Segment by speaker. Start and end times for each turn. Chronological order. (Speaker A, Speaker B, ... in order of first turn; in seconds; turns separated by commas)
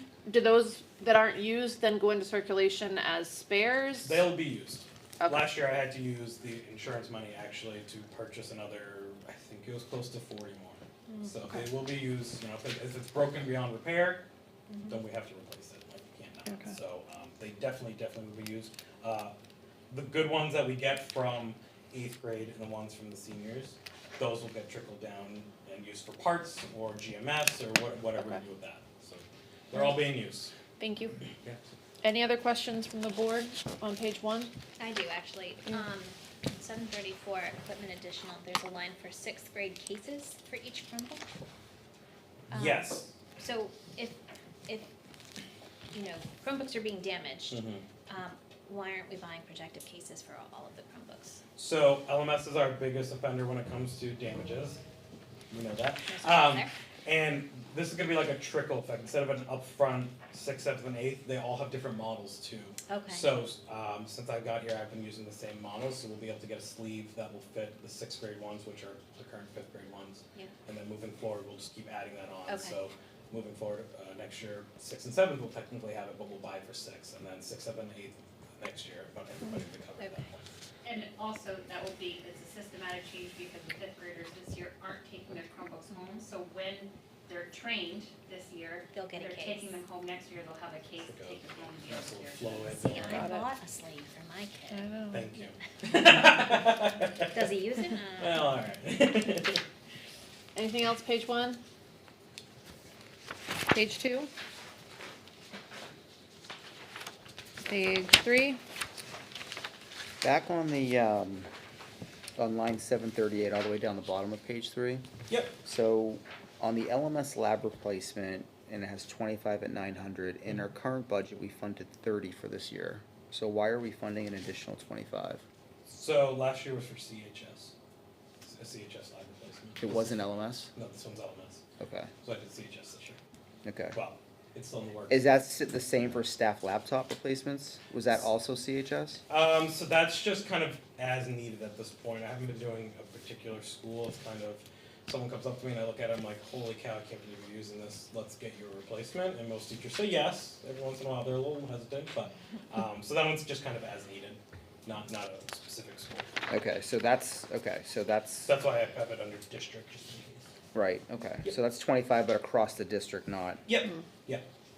Speaker A: 0.3-4.2, Speaker B: 4.0-14.2, Speaker A: 5.2-5.5, Speaker A: 11.1-11.7, Speaker B: 14.9-19.4, Speaker A: 16.4-16.8, Speaker B: 19.9-30.5, Speaker A: 30.8-31.2, Speaker A: 32.0-34.5, Speaker C: 34.8-41.2, Speaker C: 42.5-44.9, Speaker B: 42.5-43.1, Speaker C: 45.9-51.4, Speaker B: 47.5-47.9, Speaker B: 51.6-54.8, Speaker B: 55.5-80.4, Speaker C: 56.1-56.7, Speaker C: 62.9-63.3, Speaker C: 72.5-72.8, Speaker C: 80.0-80.3, Speaker D: 80.8-93.2, Speaker C: 88.9-89.8, Speaker B: 91.0-93.3, Speaker C: 92.8-94.8, Speaker A: 93.1-93.5, Speaker A: 94.7-95.3, Speaker B: 95.1-97.5, Speaker C: 97.3-98.6, Speaker B: 98.2-99.6, Speaker A: 100.5-101.6, Speaker A: 103.7-104.3, Speaker A: 107.6-108.6, Speaker E: 110.2-111.5, Speaker E: 112.4-115.1, Speaker B: 115.3-115.5, Speaker E: 115.6-125.4, Speaker B: 125.9-127.7, Speaker B: 128.4-130.2, Speaker E: 129.8-130.7, Speaker B: 130.7-131.6, Speaker E: 131.8-132.1, Speaker B: 132.2-133.2, Speaker E: 133.6-134.0, Speaker B: 133.9-135.3, Speaker E: 135.1-139.2, Speaker B: 139.3-156.4, Speaker E: 156.5-158.5, Speaker B: 158.4-160.5, Speaker E: 160.7-163.6, Speaker B: 163.7-164.4